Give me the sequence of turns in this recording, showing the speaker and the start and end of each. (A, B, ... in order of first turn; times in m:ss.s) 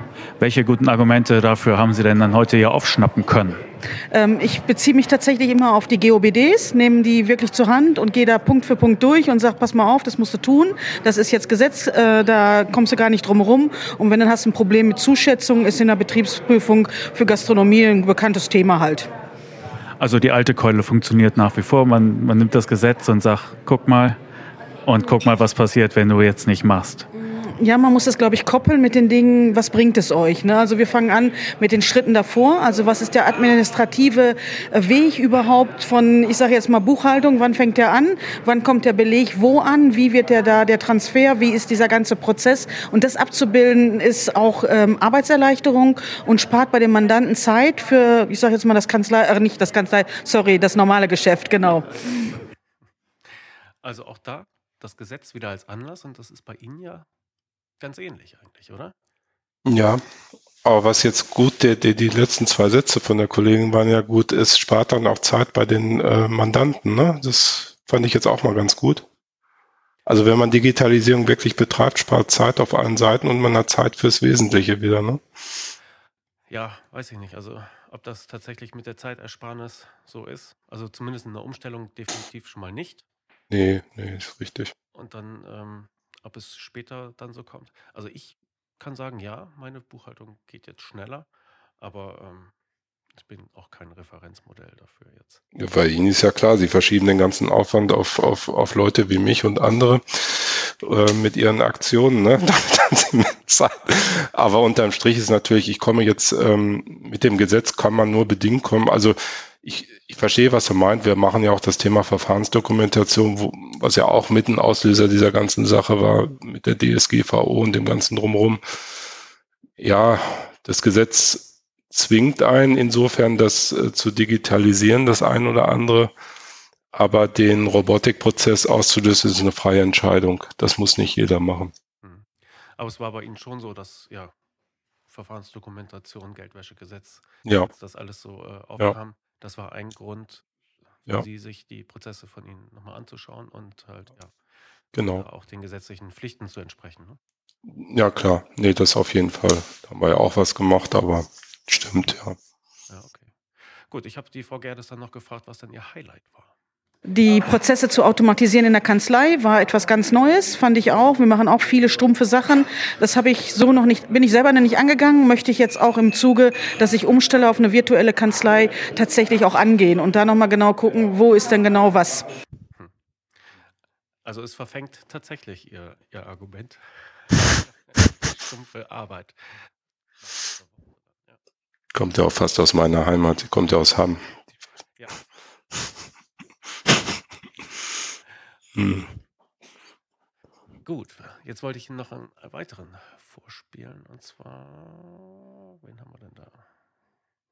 0:00.4-0:03.6 A
0:04.1-0:19.1 B
0:20.0-0:24.2 A
0:24.9-0:27.1 A
0:27.2-0:51.9 B
0:53.8-0:57.1 C
0:57.8-0:59.0 C
0:59.7-1:00.0 D
1:00.6-1:09.0 D
1:10.1-1:15.2 D
1:16.5-1:23.0 C
1:23.5-1:24.7 D
1:24.9-1:31.3 C
1:31.8-1:32.5 C
1:33.2-1:35.4 C
1:35.6-1:58.6 D
1:59.8-2:06.1 D
2:06.9-2:11.7 D
2:12.0-2:14.3 C
2:15.1-2:20.5 C
2:17.4-2:17.7 D
2:21.0-2:24.3 C
2:24.9-2:25.2 D
2:25.1-2:27.2 C
2:27.7-2:32.4 D
2:32.9-2:36.5 C
2:37.1-2:52.3 B
2:54.2-2:59.7 C
3:00.3-3:01.4 C
3:01.9-3:04.4 D
3:08.8-3:09.1 D
3:10.8-3:16.6 C